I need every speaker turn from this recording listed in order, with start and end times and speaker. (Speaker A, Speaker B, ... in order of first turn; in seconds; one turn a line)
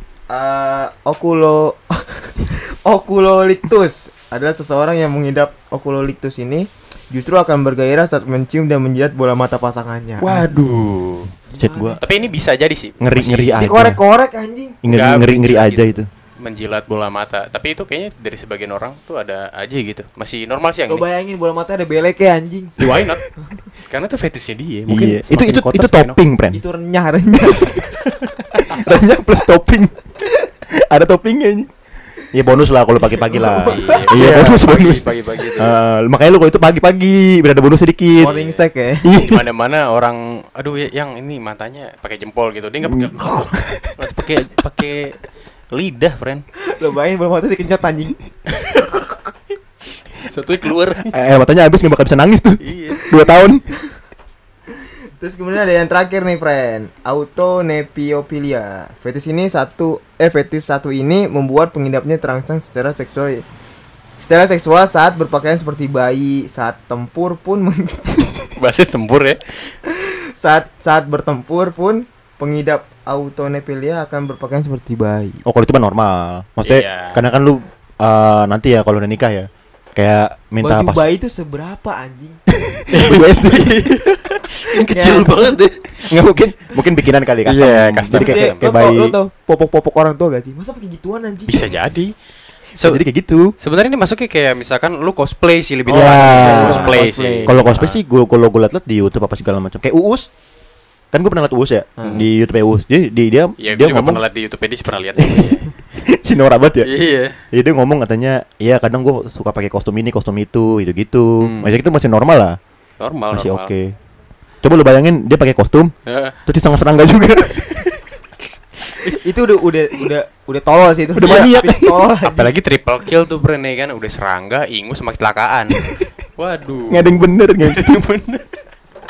Speaker A: 0.3-10.4
Speaker B: 10.2-11.3
Speaker A: 11.5-12.2
Speaker C: 11.6-12.0
Speaker B: 12.0-13.7
Speaker C: 13.0-14.0
Speaker A: 13.6-14.8
Speaker C: 14.8-16.1
Speaker B: 14.9-21.0
Speaker A: 20.9-22.8
Speaker B: 22.8-23.2
Speaker B: 23.9-26.2
Speaker C: 24.9-26.6
Speaker A: 26.5-28.0
Speaker C: 28.5-29.9
Speaker C: 30.7-31.7
Speaker C: 32.3-38.3
Speaker A: 33.0-34.1
Speaker B: 33.6-35.8
Speaker B: 38.2-38.6
Speaker A: 38.2-39.1
Speaker C: 39.0-39.5
Speaker B: 39.2-45.2
Speaker C: 42.8-44.0
Speaker B: 45.7-46.4
Speaker A: 46.6-48.2
Speaker B: 48.5-49.0
Speaker B: 50.2-51.1
Speaker C: 51.1-53.6
Speaker B: 52.6-53.2
Speaker A: 55.2-63.4
Speaker A: 64.2-68.5
Speaker B: 68.6-69.7
Speaker A: 69.9-75.4
Speaker C: 75.4-81.0
Speaker B: 76.7-77.2
Speaker A: 80.6-82.4
Speaker C: 82.5-89.1
Speaker B: 82.9-84.0
Speaker A: 84.9-85.6
Speaker B: 87.5-88.6
Speaker A: 88.1-91.7
Speaker B: 91.5-92.1
Speaker C: 92.8-93.5
Speaker B: 93.6-98.0
Speaker C: 95.9-100.3
Speaker A: 95.9-97.5
Speaker C: 101.1-104.2
Speaker A: 102.0-102.3
Speaker B: 103.6-105.6
Speaker C: 105.2-106.9
Speaker B: 106.8-107.3
Speaker C: 107.5-112.6
Speaker B: 111.4-111.7
Speaker B: 113.0-113.7
Speaker C: 113.3-113.9
Speaker C: 114.6-115.9
Speaker B: 116.1-116.4
Speaker C: 116.5-117.9
Speaker A: 119.2-122.5
Speaker C: 121.1-121.9
Speaker B: 122.2-128.4
Speaker C: 126.9-128.0